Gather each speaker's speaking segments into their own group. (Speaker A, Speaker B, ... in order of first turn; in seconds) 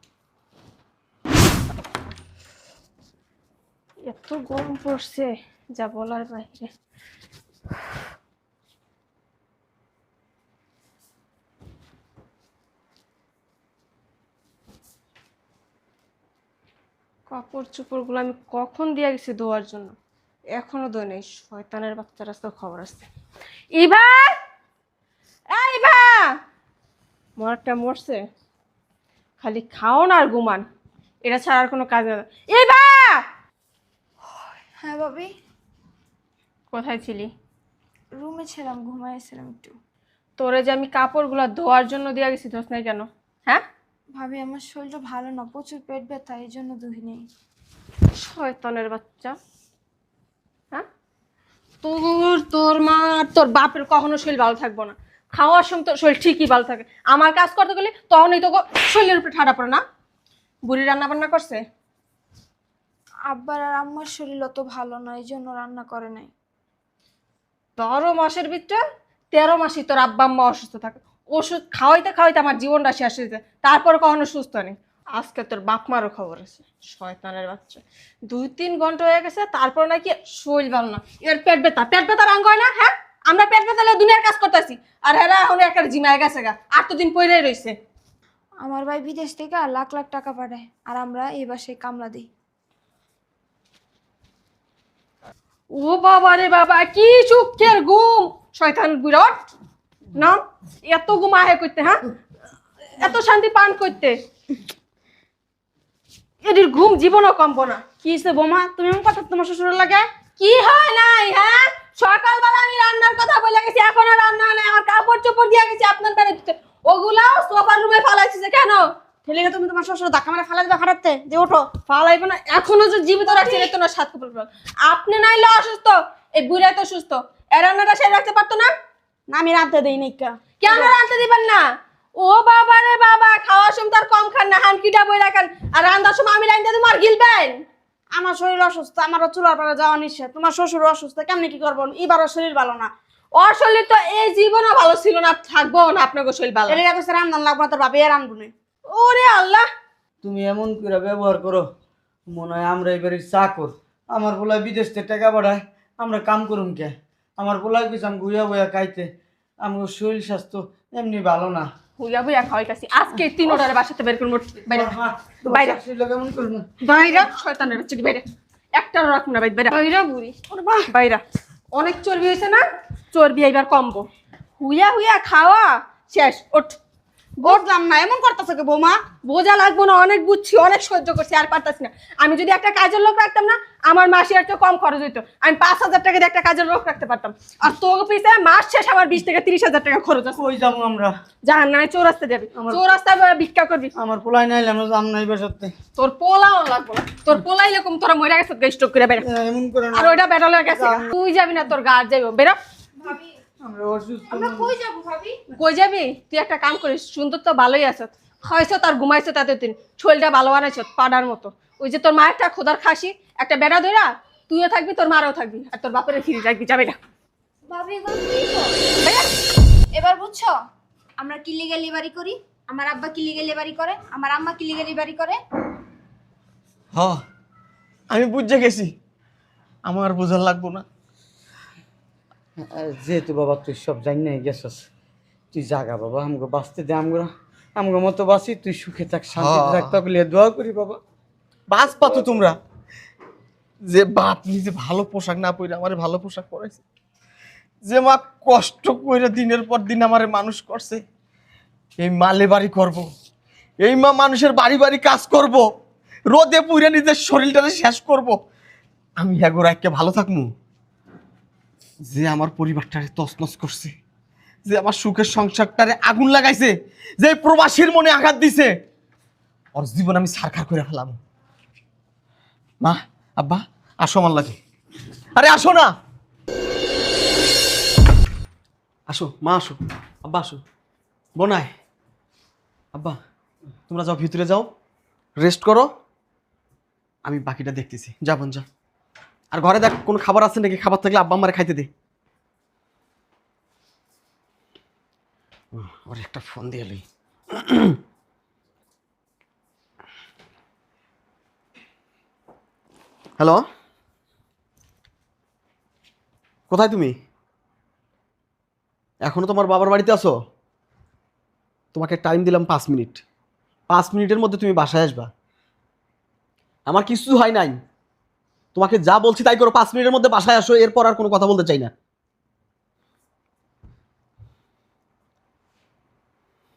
Speaker A: 4.0-6.7, 17.3-19.9, 20.6-23.1, 23.7-24.4, 25.5-26.3, 27.4-28.2, 29.4-30.6, 31.2-33.2, 36.7-37.3, 40.4-43.6, 48.2-49.4, 51.8-59.8, 60.6-61.6, 67.8-68.8, 69.3-87.8, 95.7-99.5, 100.1-102.0, 103.0-104.2, 106.4-107.8, 110.4-118.8, 121.9-128.7, 130.6-131.6, 132.2-137.6, 143.3-146.8, 148.9-149.7, 162.0-164.9, 165.5-165.8, 166.9-170.3, 170.9-171.2, 171.7-174.1, 174.6-176.8, 179.2-190.4, 191.4-193.9, 196.0-199.2, 199.9-202.6, 205.5-217.0, 219.0-219.3
Speaker B: 34.8-35.3, 38.1-39.7, 44.1-47.2, 63.3-66.3, 88.6-92.3, 203.0-203.3, 204.3-205.4, 217.7-218.8, 219.9-220.5, 221.2-225.4
Speaker C: 108.0-110.1, 119.2-121.8, 129.3-130.9, 138.1-142.9, 146.7-148.5, 166.9-167.3, 170.5-170.9, 177.4-179.0
Speaker D: 150.2-151.6, 152.3-159.1, 159.6-161.7, 164.7-166.7, 190.3-191.1, 192.5-192.8, 194.0-195.7, 199.2-201.0, 203.6-204.7, 232.6-234.8, 235.5-241.0
Speaker E: 226.9-227.2, 228.1-228.9, 229.8-230.8, 239.3-240.0, 241.7-242.6, 243.9-246.8, 247.8-251.0, 252.0-253.1, 253.8-255.6, 256.3-258.4, 259.2-260.5, 262.1-263.9, 264.6-268.7, 269.8-271.2, 272.8-274.6, 275.4-275.9, 279.1-280.6, 281.4-281.7, 283.9-284.7, 285.4-285.9, 287.2-288.6, 289.5-291.9, 295.7-298.0, 306.7-307.1, 309.2-310.3, 311.9-313.2, 313.9-315.3, 316.9-317.7, 318.7-321.9